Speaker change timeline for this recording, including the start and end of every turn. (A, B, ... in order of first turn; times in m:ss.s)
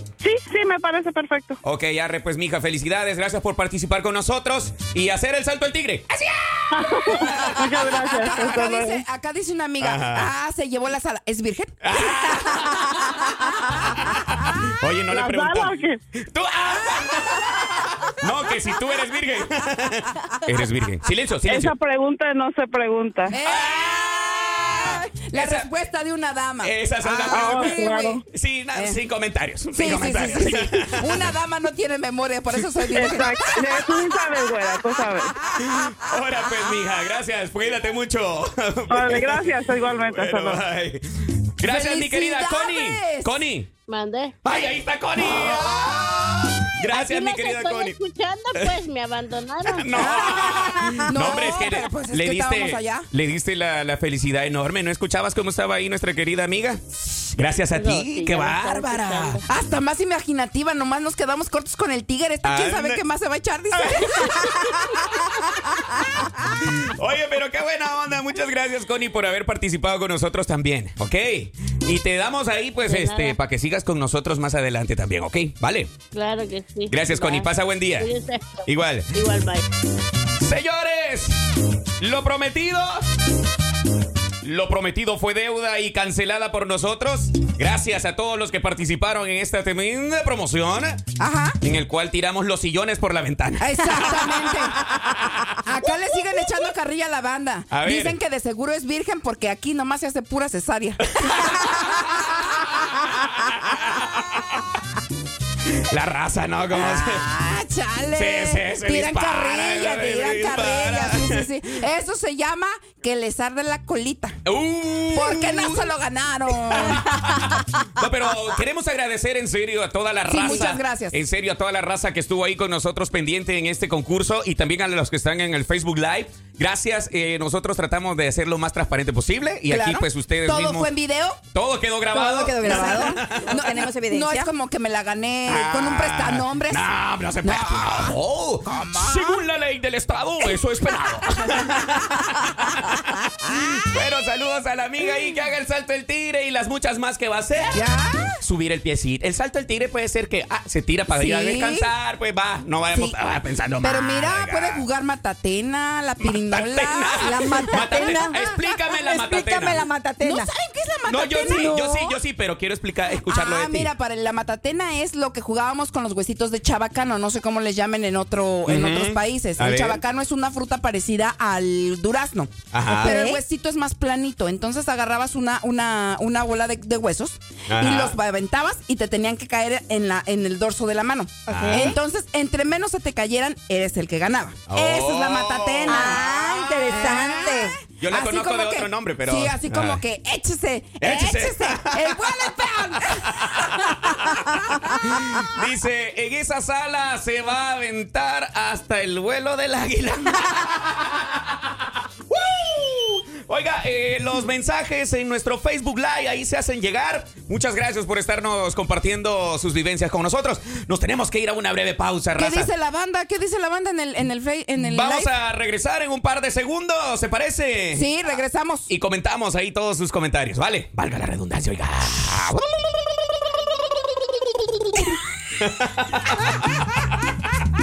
0:00.2-0:01.6 A
0:01.6-0:08.4 B
0:06.7-0:09.0 A
0:08.2-0:11.8 C
0:09.8-0:10.3 B
0:11.8-0:21.7 B
0:15.1-0:16.0 A
0:21.4-0:23.4 A
0:23.3-0:28.2 C
0:23.4-0:25.7 B
0:26.6-0:31.3 B
0:27.3-0:28.2 A
0:28.7-0:29.0 C
0:29.7-0:34.0 C
0:33.0-0:35.4 A
0:35.4-0:43.7 B
0:38.9-0:40.6 A
0:41.6-0:43.4 C
0:43.9-0:44.3 D
0:44.4-0:48.0 B
0:45.8-0:46.0 C
0:46.9-0:50.0 D
0:49.6-0:59.4 B
0:50.0-0:53.1 C
0:57.7-0:59.4 D
0:59.4-1:04.8 C
1:02.4-1:03.0 B
1:03.7-1:05.1 B
1:06.3-1:16.0 B
1:12.9-1:13.4 D
1:16.1-1:19.6 D
1:16.9-1:18.1 B
1:18.6-1:19.2 B
1:20.4-1:21.4 B
1:22.0-1:23.0 B
1:24.4-1:31.1 B
1:31.2-1:31.6 C
1:31.6-1:35.6 B
1:33.6-1:34.8 C
1:35.6-1:42.4 C
1:37.7-1:38.2 B
1:41.2-1:44.6 B
1:45.7-1:47.3 B
1:46.7-1:54.4 C
1:48.1-1:51.5 B
1:54.4-1:55.9 B
1:55.1-1:57.6 C
1:56.6-2:10.9 B
2:00.2-2:01.2 C
2:09.7-2:11.4 C
2:11.5-2:13.6 B
2:12.1-2:14.5 E
2:12.6-2:16.8 C
2:15.5-2:27.8 B
2:17.4-2:19.4 C
2:27.7-2:28.4 C
2:28.4-2:34.8 B
2:31.1-2:31.9 C
2:32.9-2:33.2 C
2:33.8-2:38.6 C
2:36.2-2:39.8 B
2:37.2-2:40.5 E
2:40.2-2:42.2 C
2:41.0-2:43.9 B
2:41.5-2:42.0 E
2:43.2-3:14.8 C
2:48.6-2:50.0 B
2:52.7-2:53.2 B
2:53.0-2:53.4 E
2:57.7-2:58.2 B
3:01.5-3:02.0 E
3:01.5-3:01.9 B
3:04.7-3:06.5 B
3:05.9-3:07.7 E
3:08.0-3:10.0 B
3:11.0-3:32.7 B
3:32.3-3:35.3 C
3:34.8-3:38.1 B
3:37.9-3:38.9 C
3:38.9-3:42.7 B
3:45.6-3:47.3 B